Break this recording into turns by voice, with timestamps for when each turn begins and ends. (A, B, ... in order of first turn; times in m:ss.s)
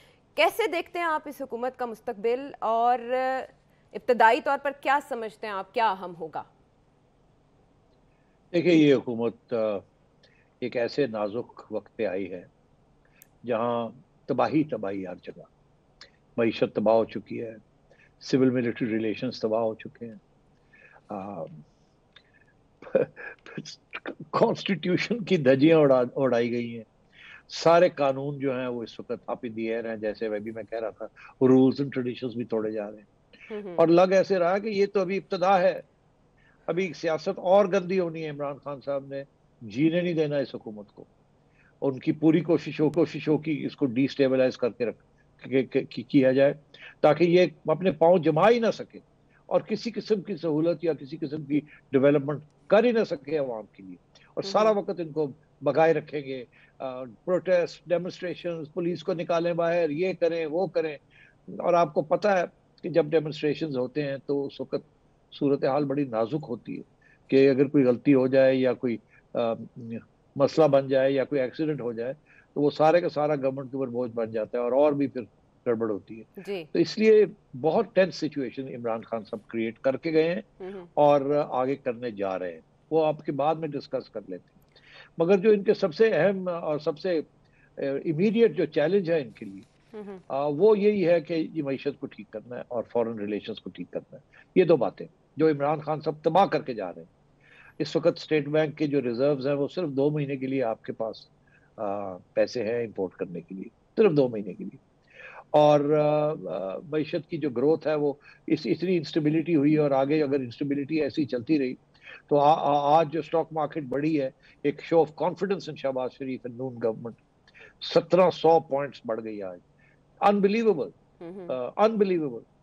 0:00.4-0:06.5 A
0:08.5-0:09.8 B
0:10.6-0:12.5 B
0:13.4-0:15.5 B
0:16.4-0:17.6 B
0:18.2-0:20.2 B
0:21.1-0:21.6 B
0:22.8-0:26.9 B
0:27.5-0:33.1 B
0:33.5-0:33.8 A
0:33.8-0:35.8 B
0:36.7-0:41.1 B
0:41.8-1:24.6 B
0:54.4-0:54.8 A
1:16.4-1:16.7 A
1:20.6-1:20.9 A
1:25.2-1:27.2 B
1:27.8-1:29.7 B
1:29.9-1:30.2 A
1:30.3-1:37.1 B
1:37.8-1:44.8 B
1:45.5-1:57.2 B
1:57.8-1:59.6 B
2:00.2-2:01.0 B
2:01.2-2:01.5 A
2:01.5-2:02.4 B